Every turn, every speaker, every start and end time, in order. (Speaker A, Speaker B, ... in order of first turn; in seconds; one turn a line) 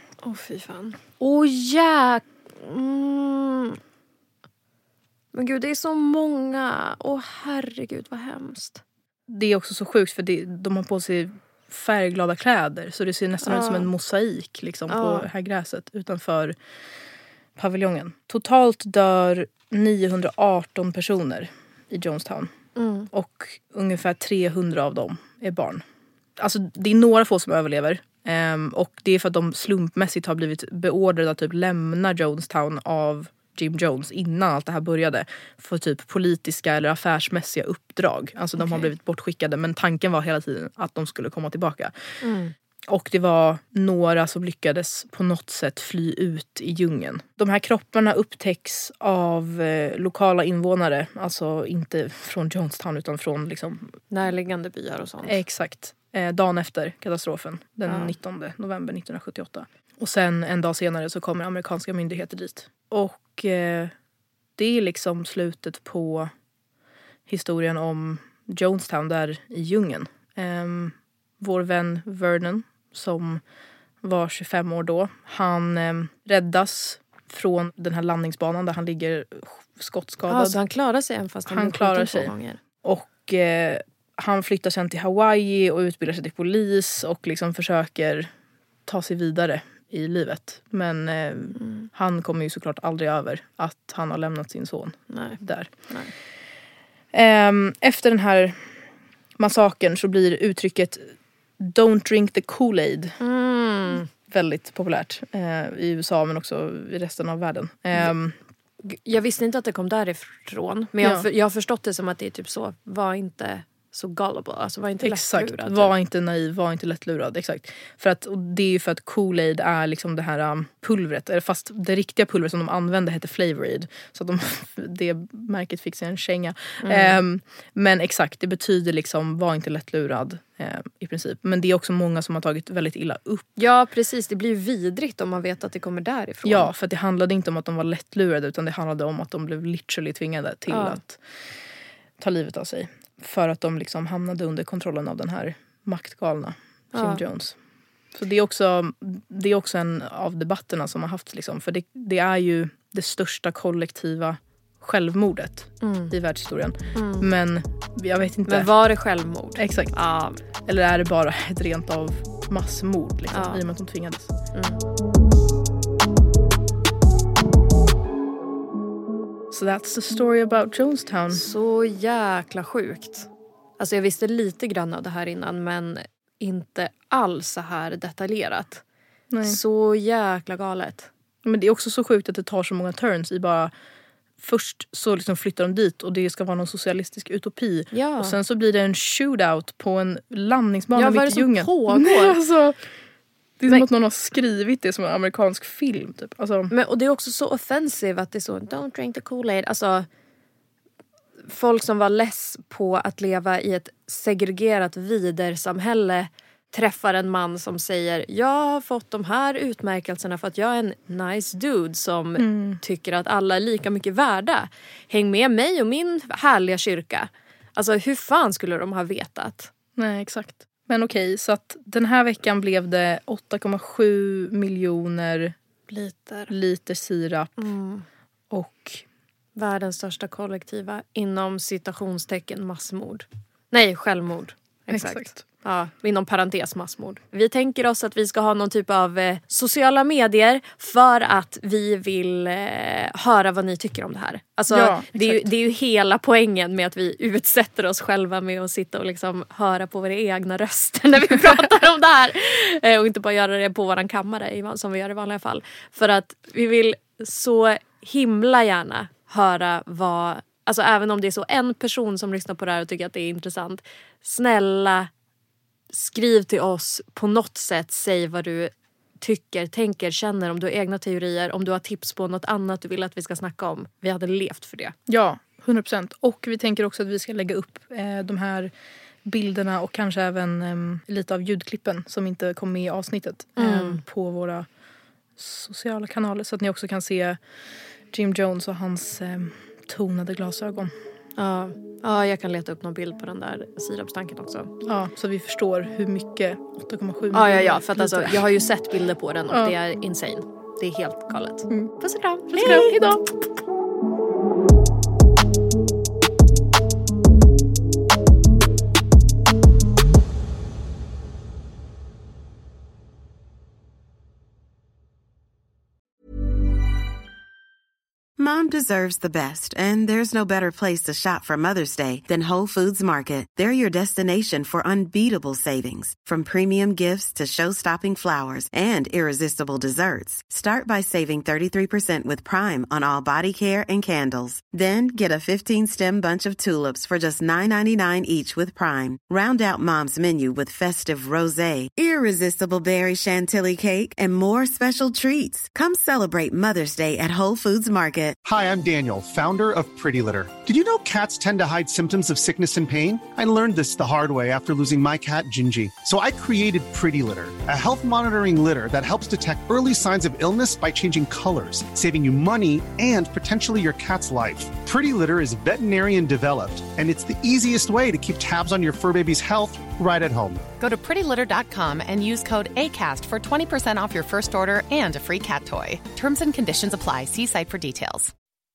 Speaker A: 0.2-3.8
Speaker A: 5.3-8.8
Speaker B: 9.3-16.6
Speaker A: 13.4-13.9
Speaker A: 14.9-15.3
Speaker B: 17.6-22.5
Speaker A: 22.8-23.1
Speaker B: 23.1-25.8
Speaker B: 26.4-41.9
Speaker A: 38.6-38.9
Speaker A: 42.2-42.5
Speaker B: 42.9-53.9
Speaker A: 54.1-55.4
Speaker B: 55.2-63.9
Speaker A: 57.9-58.1
Speaker B: 64.6-66.3
Speaker B: 67.3-73.4
Speaker B: 74.0-80.6
Speaker A: 80.3-82.6
Speaker B: 81.5-88.3
Speaker B: 88.8-95.7
Speaker A: 91.6-91.9
Speaker A: 95.1-95.4
Speaker B: 97.1-98.7
Speaker B: 99.4-103.2
Speaker A: 103.2-104.1
Speaker B: 104.2-108.3
Speaker A: 108.8-115.9
Speaker B: 111.0-111.3
Speaker B: 115.0-133.5
Speaker A: 126.8-127.2
Speaker A: 133.6-136.7
Speaker B: 136.4-141.2
Speaker A: 140.7-141.0
Speaker B: 142.2-147.6
Speaker A: 146.9-147.2
Speaker B: 148.1-158.7
Speaker A: 155.8-156.1
Speaker A: 156.9-157.3
Speaker A: 158.5-160.4
Speaker B: 159.6-159.9
Speaker B: 160.7-164.3
Speaker A: 163.3-163.6
Speaker A: 164.5-164.8
Speaker B: 169.5-171.4
Speaker A: 171.3-173.3
Speaker A: 173.8-178.8
Speaker B: 179.3-179.6
Speaker A: 179.4-181.1
Speaker B: 181.4-183.7
Speaker B: 184.4-192.8
Speaker A: 187.9-188.3
Speaker A: 190.9-192.4
Speaker B: 193.6-196.7
Speaker A: 196.7-200.1
Speaker A: 201.5-219.7
Speaker B: 212.4-212.8
Speaker B: 219.9-225.6
Speaker A: 225.9-226.5
Speaker B: 226.5-227.6
Speaker A: 227.6-228.0
Speaker B: 228.5-229.0
Speaker A: 229.6-265.1
Speaker B: 234.9-235.4
Speaker B: 244.7-245.5
Speaker A: 265.9-274.9
Speaker B: 275.1-278.7
Speaker B: 279.2-284.7
Speaker A: 283.6-284.0
Speaker B: 285.4-287.4
Speaker B: 288.1-290.9
Speaker A: 291.4-294.7
Speaker B: 294.8-298.4
Speaker A: 297.3-303.0
Speaker B: 299.5-299.7
Speaker B: 302.5-303.2
Speaker C: 318.4-348.4
Speaker D: 348.4-370.6
Speaker E: 370.8-378.3